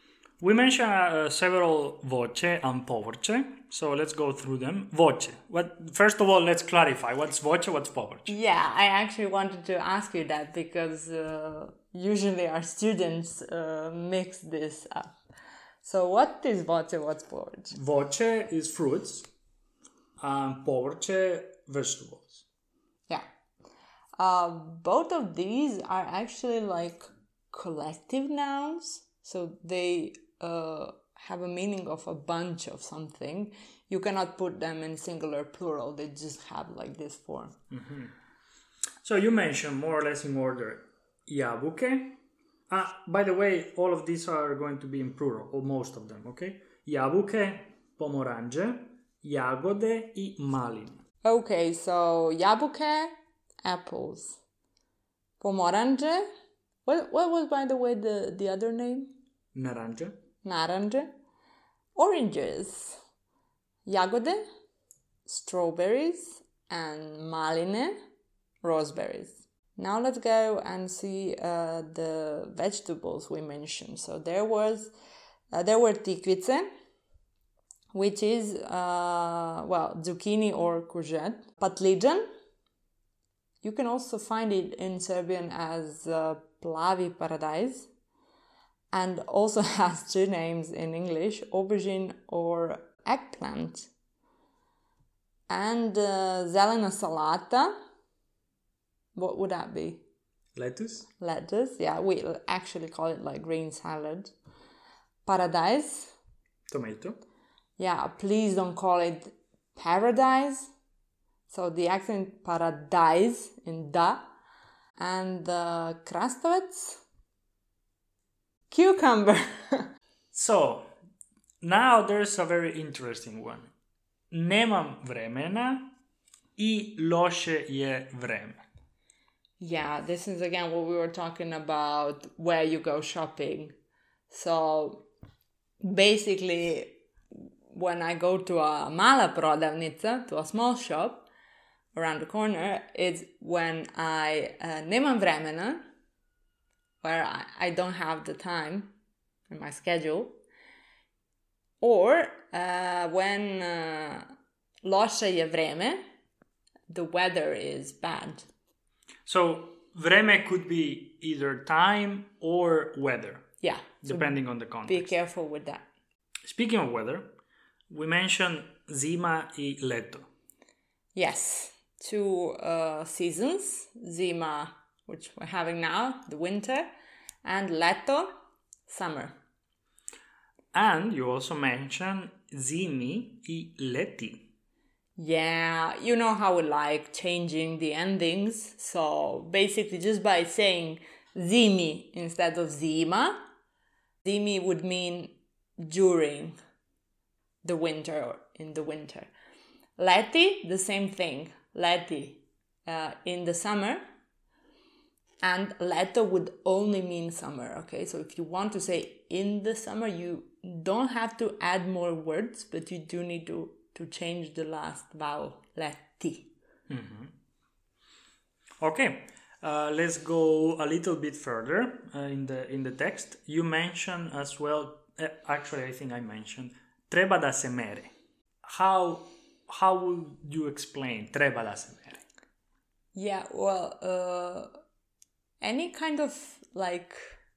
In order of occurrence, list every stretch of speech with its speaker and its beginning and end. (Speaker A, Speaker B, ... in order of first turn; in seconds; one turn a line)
Speaker A: 0.4-8.3
Speaker B: 8.3-15.1
Speaker B: 15.8-17.7
Speaker A: 17.7-19.3
Speaker A: 20.2-22.4
Speaker B: 24.2-37.5
Speaker A: 37.7-38.1
Speaker A: 39.0-42.2
Speaker A: 42.7-51.0
Speaker B: 51.2-53.1
Speaker B: 53.6-54.4
Speaker B: 55.4-56.2
Speaker B: 56.8-59.1
Speaker A: 59.5-60.2
Speaker B: 60.4-61.1
Speaker B: 62.0-63.0
Speaker B: 63.8-64.4
Speaker B: 65.2-68.0
Speaker B: 68.6-74.9
Speaker B: 75.5-76.7
Speaker B: 77.9-82.2
Speaker B: 83.6-87.9
Speaker B: 88.9-93.9
Speaker B: 95.5-97.7
Speaker B: 99.1-100.0
Speaker A: 100.5-101.1
Speaker B: 101.2-104.3
Speaker B: 105.2-106.1
Speaker A: 106.7-107.2
Speaker B: 107.8-110.7
Speaker B: 111.5-114.3
Speaker B: 115.0-117.0
Speaker B: 118.7-119.9
Speaker A: 120.3-120.9
Speaker A: 121.6-123.7
Speaker A: 124.3-125.9
Speaker A: 126.6-128.6
Speaker B: 129.6-133.7
Speaker B: 134.3-135.0
Speaker B: 135.8-136.9
Speaker B: 137.7-141.3
Speaker B: 141.9-145.8
Speaker B: 147.0-148.9
Speaker B: 149.5-150.4
Speaker B: 151.8-154.2
Speaker B: 154.8-156.0
Speaker B: 156.9-158.5
Speaker A: 159.2-163.5
Speaker B: 163.6-165.8
Speaker A: 164.0-165.1
Speaker A: 166.4-167.3
Speaker A: 167.9-170.3
Speaker B: 171.1-176.9
Speaker B: 177.4-178.3
Speaker B: 178.9-179.3
Speaker A: 180.7-184.5
Speaker B: 185.2-193.4
Speaker B: 194.2-196.6
Speaker B: 197.6-199.3
Speaker B: 200.0-204.0
Speaker B: 205.4-216.5
Speaker A: 216.9-217.3
Speaker A: 218.8-228.1
Speaker A: 228.6-232.2
Speaker B: 233.1-234.7
Speaker B: 235.6-237.3